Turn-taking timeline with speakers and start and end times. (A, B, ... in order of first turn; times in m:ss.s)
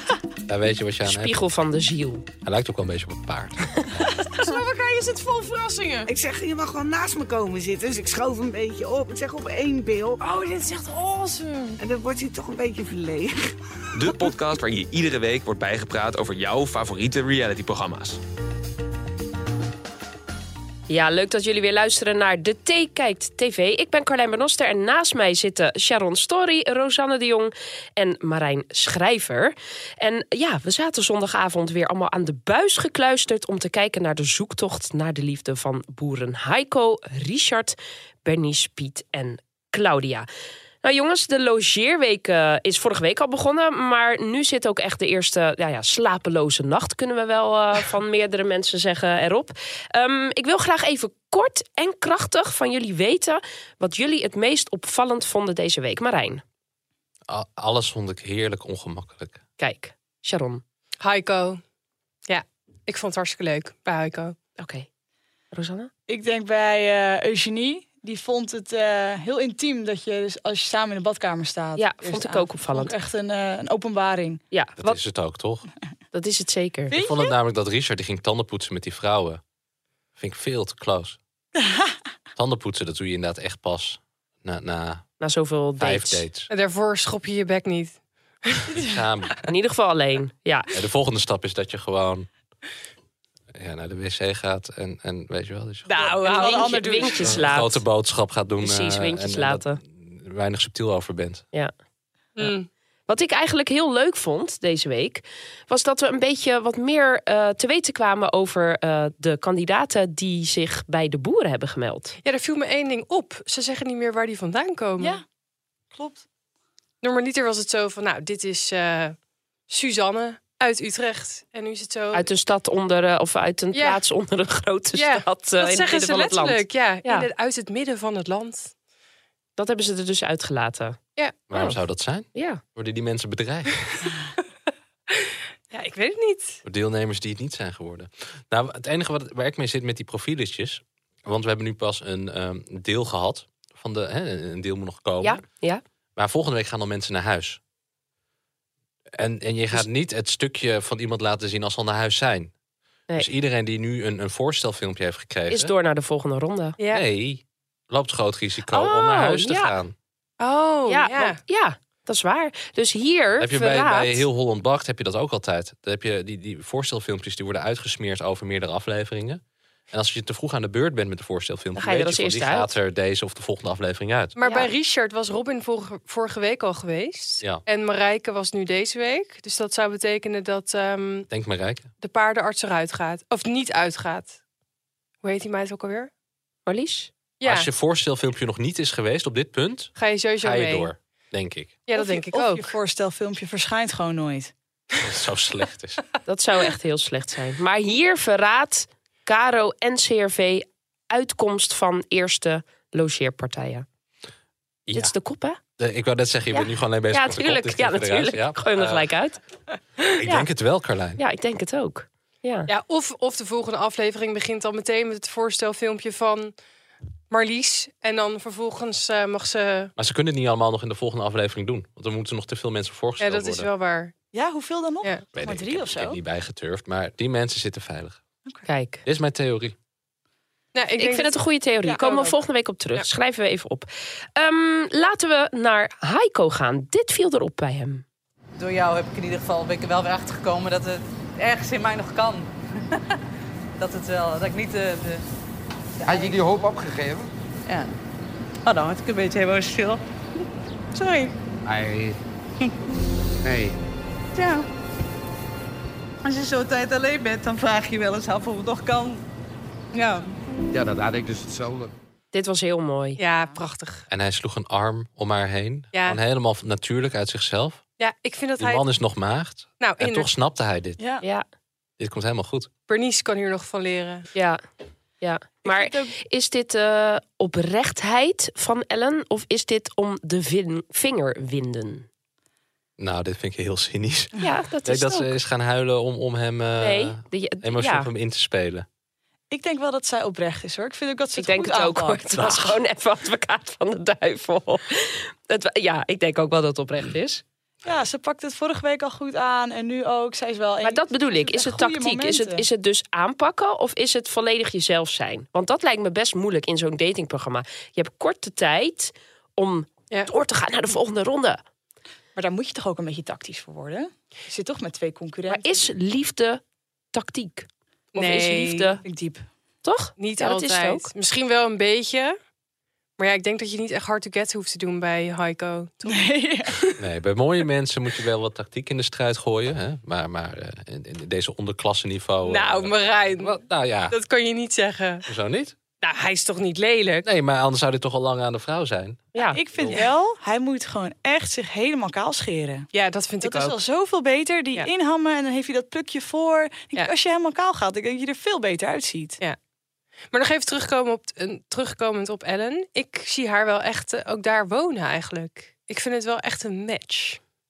0:00.5-0:01.4 A
0:01.0-0:02.3 B
0:02.4-0:03.6 A
0:04.5-0:05.9 C
0:06.1-0:10.3 D
0:10.3-0:11.8 E
0:11.8-0:14.4 D
0:14.0-0:18.2 F
0:20.9-0:40.3 B
0:40.8-0:56.4 B
0:57.3-0:59.4 A
0:59.6-1:00.6 B
1:01.0-1:01.6 E
1:02.3-1:04.4 E
1:04.6-1:04.9 B
1:05.5-1:05.9 B
1:06.1-1:14.4 G
1:11.8-1:13.0 B
1:14.5-1:15.0 B
1:14.8-1:15.7 A
1:16.1-1:16.9 B
1:16.9-1:17.3 G
1:16.9-1:19.4 A
1:20.2-1:21.2 A
1:22.4-1:25.1 A
1:25.2-1:26.2 B
1:25.8-1:26.5 A
1:26.5-1:28.7 E
1:28.7-1:29.5 A
1:29.5-1:30.7 B
1:30.7-1:32.3 A
1:33.5-1:36.0 A
1:35.9-1:36.8 E
1:35.9-1:37.4 G
1:36.4-1:37.8 B
1:37.2-1:41.5 A
1:38.6-1:39.8 B
1:42.4-1:42.7 E
1:43.1-1:52.2 B
1:52.2-1:55.2 E
1:55.0-1:55.2 G
1:55.9-1:56.2 G
1:57.0-1:59.2 E
1:59.7-2:02.2 E
2:02.1-2:07.3 B
2:03.8-2:04.0 E
2:04.9-2:08.7 E
2:09.6-2:11.0 B
2:11.5-2:14.0 A
2:12.3-2:12.6 B
2:15.7-2:16.6 E
2:16.6-2:25.4 A
2:25.2-2:25.8 B
2:26.2-2:27.6 A
2:29.2-2:32.5 A
2:33.2-2:35.7 A
2:35.5-2:36.8 B
2:36.8-2:37.0 E
2:36.9-2:40.0 A
2:38.7-2:39.8 B
2:40.4-2:41.4 E
2:40.9-2:44.2 B
2:43.4-2:54.4 A
2:51.8-2:52.7 B
2:54.4-3:01.3 E
2:54.4-2:54.7 B
3:01.3-3:01.9 A
3:02.0-3:04.4 E
3:05.2-3:06.1 E
3:06.7-3:07.1 B
3:07.4-3:07.7 E
3:07.4-3:11.8 A
3:10.0-3:10.9 E
3:11.9-3:12.7 E
3:11.9-3:14.5 G
3:15.0-3:16.0 A
3:16.3-3:23.9 B
3:24.9-3:25.1 A
3:24.9-3:25.6 B
3:25.8-3:29.1 A
3:26.5-3:29.4 B
3:30.1-3:31.2 A
3:31.2-3:32.7 B
3:32.7-3:36.5 E
3:37.3-3:39.9 E
3:40.0-3:43.7 A
3:43.2-3:44.1 E
3:44.3-3:46.2 G
3:45.4-3:48.2 A
3:48.6-3:49.0 B
3:49.0-3:49.8 A
3:50.7-3:51.4 E
3:51.0-3:58.0 B
3:51.8-3:52.4 G
3:58.6-4:02.5 C
4:03.8-4:05.2 C
4:06.1-4:06.5 C
4:06.1-4:07.3 H
4:07.7-4:07.9 C
4:08.6-4:10.0 C
4:10.9-4:11.4 C
4:11.6-4:12.2 H
4:13.4-4:13.8 H
4:14.4-4:14.7 C
4:16.2-4:19.2 C
4:19.9-4:20.3 C
4:20.7-4:21.9 H
4:22.3-4:23.2 B
4:23.2-4:24.0 E
4:24.1-4:27.8 A
4:25.9-4:26.2 E
4:28.0-4:28.9 E
4:28.6-4:31.0 A
4:29.8-4:30.3 E
4:31.0-4:31.2 G
4:32.0-4:32.7 A
4:32.9-4:34.3 E
4:34.4-4:34.6 B
4:35.2-4:42.1 B
4:35.6-4:36.1 G
4:43.0-4:44.3 A
4:44.4-4:45.3 B
4:44.8-4:48.9 A
4:46.8-4:48.1 B
4:49.5-4:52.6 G
4:51.4-4:57.4 B
4:52.4-4:52.7 A
4:57.8-5:02.6 G
5:00.8-5:11.6 B
5:12.4-5:15.9 G
5:15.5-5:16.6 B
5:17.1-5:19.0 B
5:18.2-5:19.0 E
5:19.0-5:19.4 G
5:19.8-5:21.1 B
5:20.2-5:22.4 E
5:23.2-5:26.8 E
5:26.0-5:26.8 G
5:27.0-5:34.2 A
5:32.4-5:35.3 E
5:35.3-5:35.8 A
5:36.0-5:37.3 E
5:37.2-5:40.0 A
5:39.3-5:39.6 B
5:39.5-5:42.9 G
5:42.9-5:43.8 E
5:43.4-5:49.4 G
5:50.3-5:57.4 E